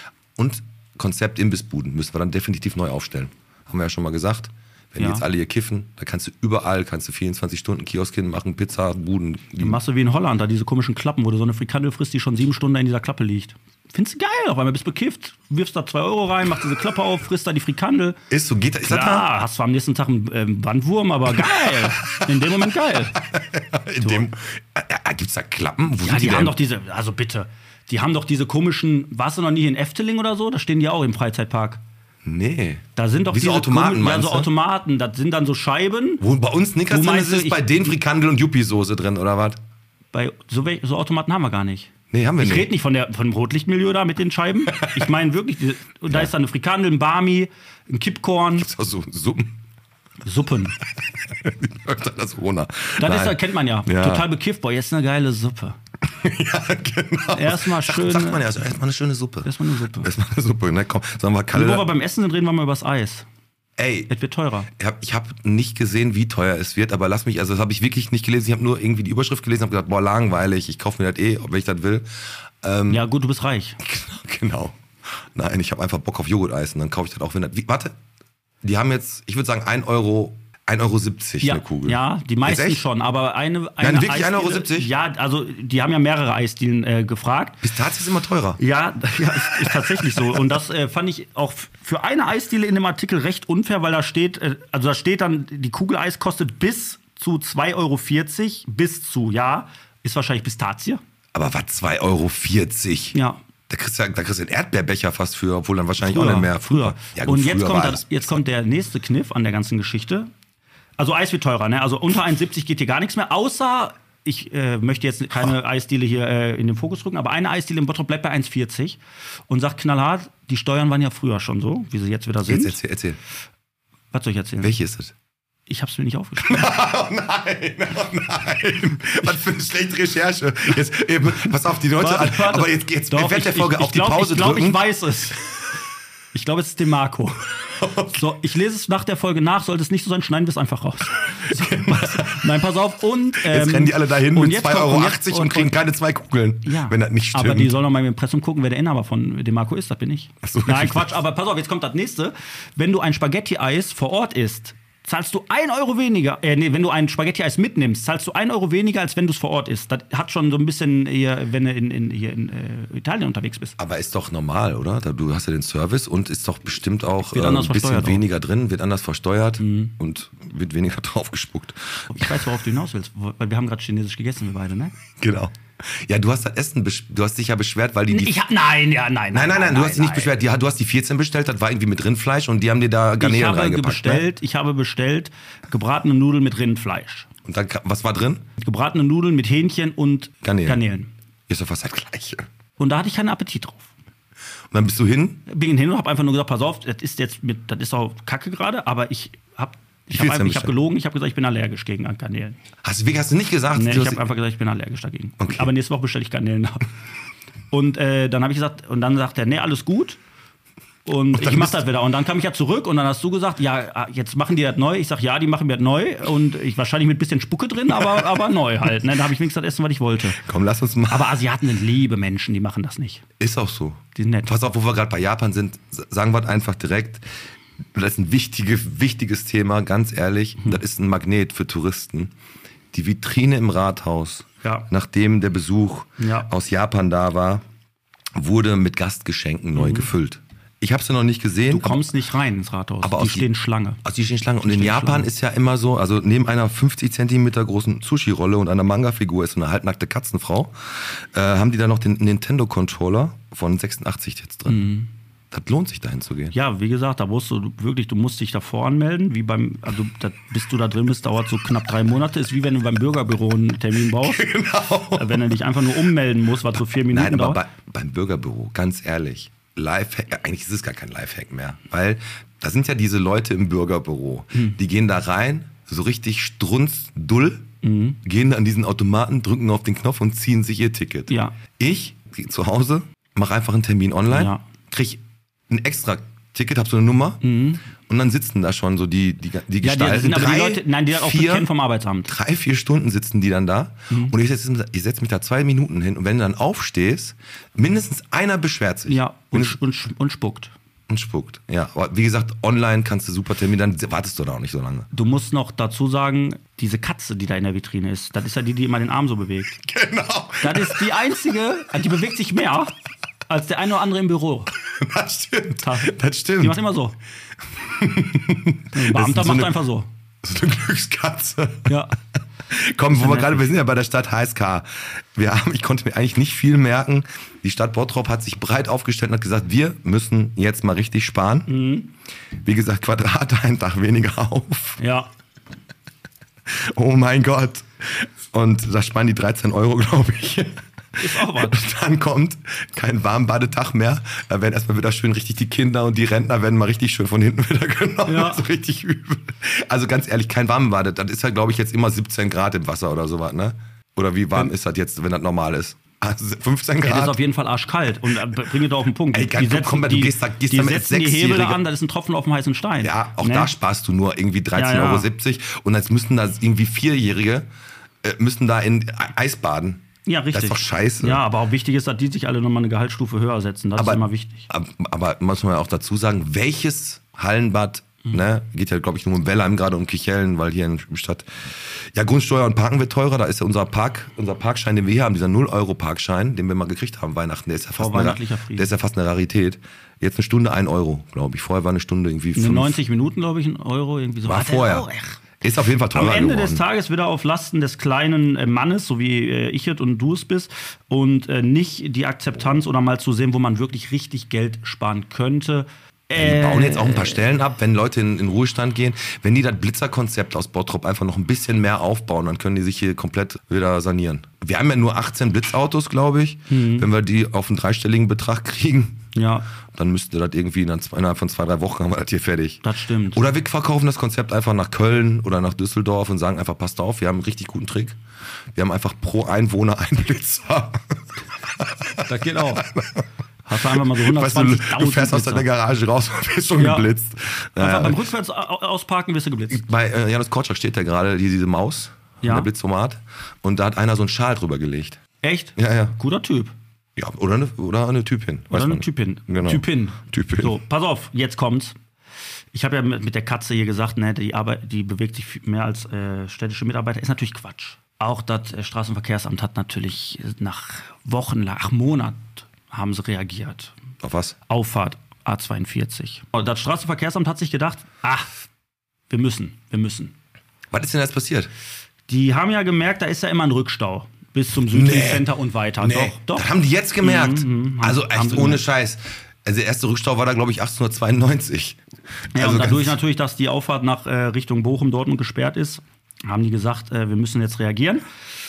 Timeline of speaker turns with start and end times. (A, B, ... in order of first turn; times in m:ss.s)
0:00.4-0:09.8 A
0:05.0-0:05.2 B
0:09.6-0:18.2 B
0:18.3-0:19.3 A
0:18.9-0:23.2 B
0:21.4-0:22.3 A
0:23.2-0:26.6 A
0:24.0-0:24.3 B
0:26.0-0:31.8 B
0:32.2-0:34.5 A
0:33.0-0:36.2 B
0:36.2-0:39.6 A
0:36.9-0:37.7 B
0:40.1-0:48.7 B
0:42.1-0:42.7 A
0:44.8-0:45.1 A
0:48.6-0:49.5 A
0:50.2-0:50.8 B
0:51.3-0:54.3 A
0:53.0-0:55.8 B
0:56.0-1:01.9 A
0:57.3-0:58.5 B
0:59.4-1:00.1 B
1:01.5-1:03.3 B
1:03.8-1:04.1 A
1:04.1-1:04.7 B
1:04.7-1:12.1 A
1:12.6-1:13.0 A
1:12.9-1:13.8 B
1:13.8-1:18.0 A
1:18.6-1:22.8 A
1:21.4-1:27.6 B
1:23.8-1:24.9 A
1:27.6-1:28.6 A
1:28.6-1:41.0 B
1:29.7-1:30.3 A
1:41.3-1:43.2 A
1:43.1-1:43.4 B
1:43.7-1:48.4 A
1:46.0-1:50.3 B
1:51.0-2:02.8 B
2:02.4-2:03.2 A
2:04.1-2:04.7 B
2:04.6-2:05.1 A
2:05.7-2:06.7 B
2:06.4-2:14.8 A
2:12.0-2:15.5 B
2:16.3-2:17.5 B
2:17.8-2:18.2 A
2:18.1-2:25.8 B
2:21.5-2:22.5 A
2:23.4-2:27.8 A
2:26.6-2:43.8 B
2:30.4-2:31.2 A
2:43.8-2:52.4 A
2:47.3-2:48.2 B
2:49.6-2:49.9 B
2:52.1-2:55.0 B
2:55.2-2:58.3 A
2:58.1-3:00.3 B
2:59.3-3:04.3 A
3:03.2-3:07.3 B
3:07.5-3:08.4 A
3:08.6-3:11.1 B
3:10.4-3:10.8 A
3:11.5-3:12.5 A
3:12.8-3:13.9 B
3:14.7-3:15.4 A
3:15.5-3:22.6 B
3:20.1-3:20.8 A
3:22.8-3:24.2 A
3:23.7-3:26.9 B
3:25.4-3:25.7 A
3:27.7-3:30.2 B
3:31.1-3:40.4 B
3:31.3-3:31.8 A
3:40.4-3:41.4 A
3:41.1-3:43.2 B
3:43.4-3:47.2 A
3:44.2-3:44.5 B
3:48.0-3:52.3 A
3:52.9-3:57.6 A
3:56.2-3:56.5 B
3:58.4-4:02.1 A
3:59.8-4:00.1 B
4:01.7-4:04.0 B
4:03.0-4:03.5 A
4:04.0-4:14.9 A
4:04.6-4:05.3 B
4:14.7-4:15.1 B
4:15.5-4:16.6 A
4:16.5-4:24.5 B
4:24.1-4:25.6 A
4:25.1-4:27.6 B
4:27.0-4:37.7 A
4:37.8-4:38.2 B
4:38.2-4:47.4 A
4:41.3-4:41.6 B
4:44.3-4:44.6 B
4:47.4-4:47.8 B
4:48.1-4:51.7 A
4:49.8-4:52.3 B
4:52.3-4:59.8 A
4:59.1-5:00.7 B
5:01.1-5:05.1 A
5:05.1-5:09.8 B
5:09.8-5:11.1 A
5:10.6-5:12.9 B
5:13.5-5:14.7 B
5:14.8-5:16.8 A
5:15.8-5:17.2 B
5:17.8-5:19.8 A
5:18.9-5:20.1 B
5:20.4-5:22.0 A
5:21.9-5:22.1 B
5:22.7-5:31.7 A
5:23.1-5:23.8 B
5:31.7-5:32.1 B
5:32.6-5:35.0 A
5:35.0-5:35.3 B
5:36.7-5:57.4 A
5:41.2-5:41.8 B
5:48.2-5:48.7 B
5:57.0-6:03.7 B
5:59.3-6:01.8 A
6:03.0-6:07.7 A
6:04.8-6:05.3 B
6:08.2-6:11.4 A
6:10.3-6:14.7 B
6:14.0-6:33.0 A
6:28.0-6:28.9 B
6:32.6-6:35.4 B
6:34.4-6:35.1 A
6:35.6-6:36.8 A
6:36.1-6:47.4 B
6:46.4-6:59.2 A
6:56.7-6:57.1 B
6:59.4-6:59.7 B
6:59.9-7:08.2 A
7:02.8-7:03.4 B
7:08.8-7:18.3 A
7:12.2-7:12.8 B
7:13.7-7:15.7 B
7:16.8-7:17.1 B
7:17.8-7:19.8 B
7:19.7-7:25.2 A
7:22.4-7:22.7 B
7:25.4-7:26.8 B
7:25.8-7:26.2 A
7:27.2-7:30.8 A
7:28.7-7:32.0 B
7:32.7-7:43.9 B
7:44.2-7:44.6 A
7:44.7-7:48.5 B
7:49.3-7:50.3 B
7:50.9-7:51.7 A
7:52.3-7:56.7 B
7:54.9-8:02.0 A
7:57.2-7:58.8 B
8:02.5-8:03.2 A
8:02.5-8:08.2 B